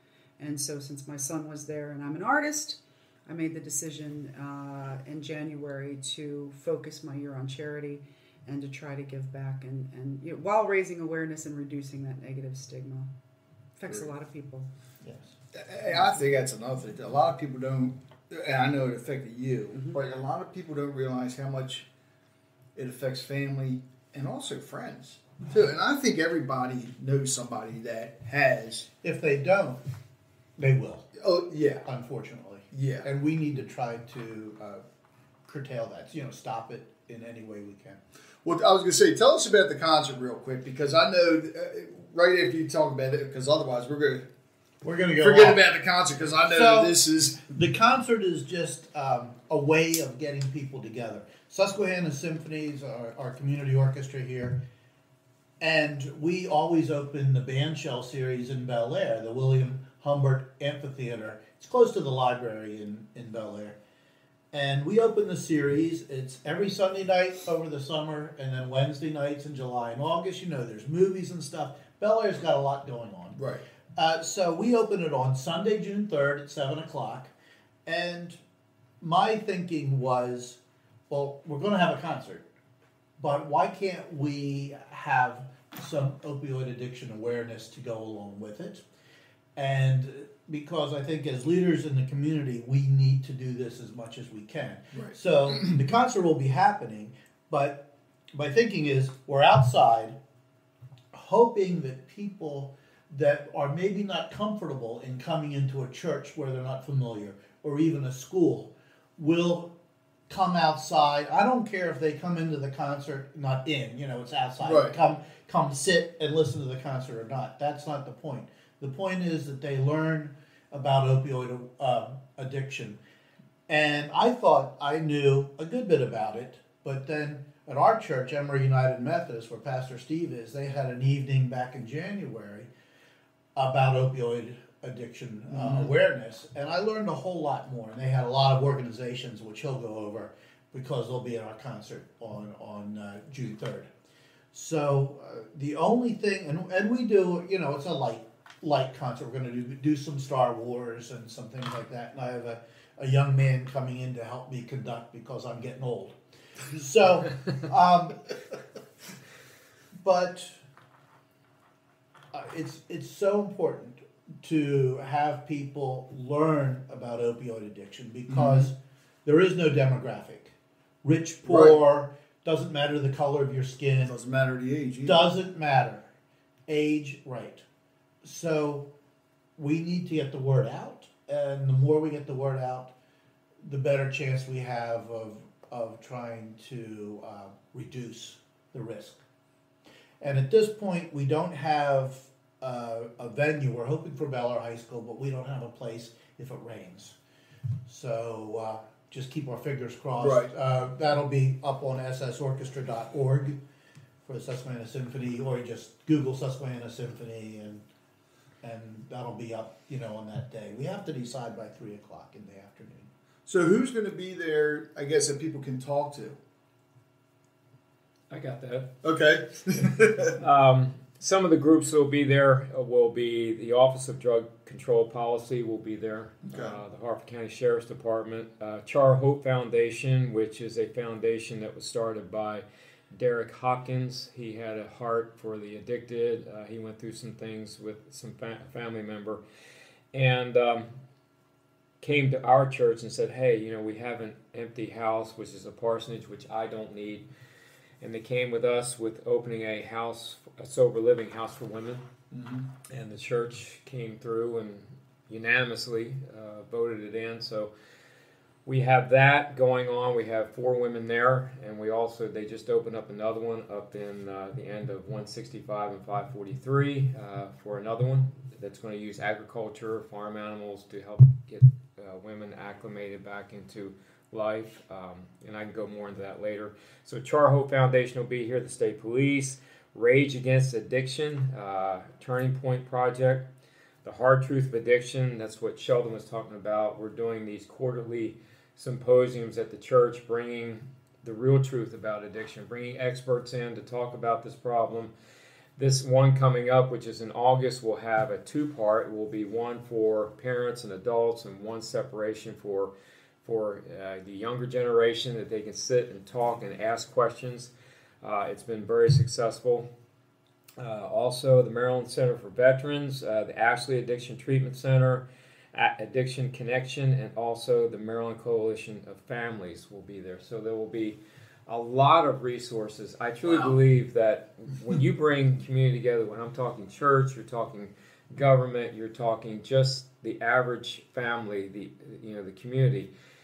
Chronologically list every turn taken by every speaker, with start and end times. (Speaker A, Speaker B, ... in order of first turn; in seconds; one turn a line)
Speaker A: 0.4-13.1
Speaker A: 13.8-14.7
Speaker B: 15.0-15.3
Speaker C: 15.5-21.9
Speaker C: 22.7-28.9
Speaker B: 29.0-29.8
Speaker B: 30.6-31.1
Speaker C: 31.1-31.9
Speaker B: 31.8-34.8
Speaker C: 32.7-33.1
Speaker B: 35.5-38.0
Speaker C: 38.4-44.3
Speaker B: 44.8-45.6
Speaker C: 45.2-47.4
Speaker B: 46.5-54.6
Speaker B: 55.6-63.8
Speaker B: 64.5-77.3
Speaker C: 73.4-73.6
Speaker B: 77.8-78.4
Speaker B: 79.0-82.4
Speaker B: 83.2-88.8
Speaker B: 89.5-100.2
Speaker C: 94.9-95.7
Speaker B: 101.1-109.7
Speaker B: 110.3-123.0
Speaker C: 114.6-115.0
Speaker B: 123.7-132.7
Speaker B: 133.5-143.9
Speaker C: 135.5-135.9
Speaker B: 144.5-158.2
Speaker B: 160.0-160.6
Speaker B: 162.3-174.2
Speaker C: 168.3-168.7
Speaker C: 171.4-171.8
Speaker C: 174.0-175.2
Speaker B: 175.0-176.1
Speaker B: 176.7-177.6
Speaker B: 178.2-178.9
Speaker B: 179.6-182.9
Speaker B: 183.6-189.2
Speaker B: 190.2-197.2
Speaker B: 197.9-203.6
Speaker C: 200.2-200.5
Speaker B: 204.2-207.8
Speaker B: 208.6-213.1
Speaker C: 213.4-216.4
Speaker D: 218.3-218.9
Speaker C: 219.0-220.3
Speaker D: 220.2-239.4
Speaker C: 226.5-226.8
Speaker D: 240.1-240.9
Speaker D: 242.0-247.2
Speaker D: 248.0-252.1
Speaker C: 252.3-252.7
Speaker D: 252.9-257.7
Speaker D: 258.6-283.5
Speaker D: 284.0-295.1
Speaker D: 295.8-302.9
Speaker D: 303.4-309.9
Speaker D: 310.8-333.1
Speaker C: 323.4-323.8